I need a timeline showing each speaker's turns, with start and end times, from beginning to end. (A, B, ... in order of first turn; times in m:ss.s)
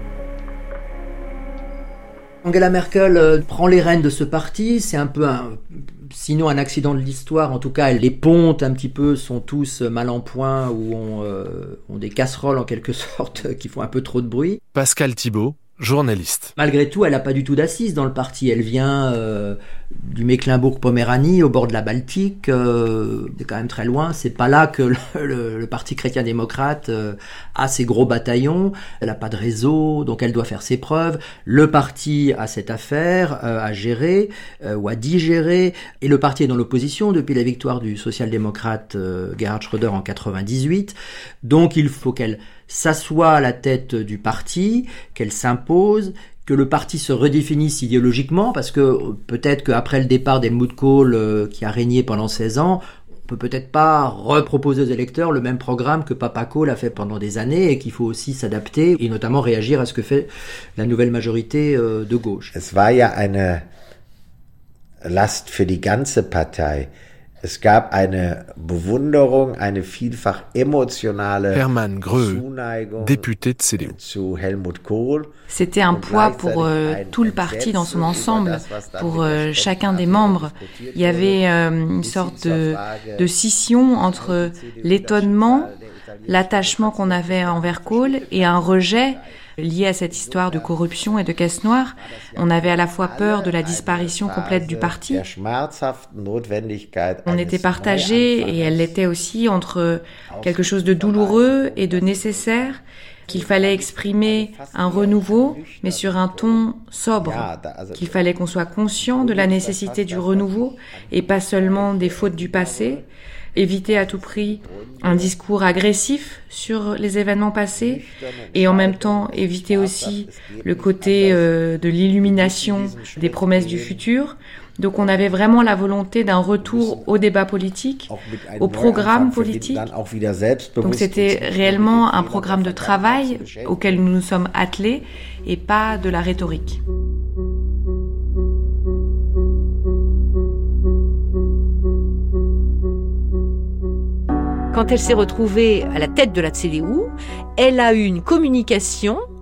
0:02.4-0:14.6 A
0:14.7-0:16.5 B
0:16.6-1:02.5 A
1:02.5-1:03.6 C
1:05.0-1:06.9 C
1:07.4-1:15.3 C
1:11.5-1:12.4 B
1:13.0-1:14.0 B
1:15.5-1:25.7 D
1:15.9-1:23.3 C
1:24.0-1:29.2 C
1:26.3-1:35.3 D
1:30.1-1:31.1 C
1:32.0-1:39.0 C
1:37.3-1:53.0 D
1:40.3-1:48.3 C
1:49.0-1:53.0 C
1:53.6-2:09.9 D
1:53.7-1:55.4 C
1:57.8-2:01.6 C
2:02.2-2:04.0 C
2:06.6-2:07.1 C
2:08.1-2:14.0 C
2:10.8-2:16.8 D
2:24.7-2:29.2 E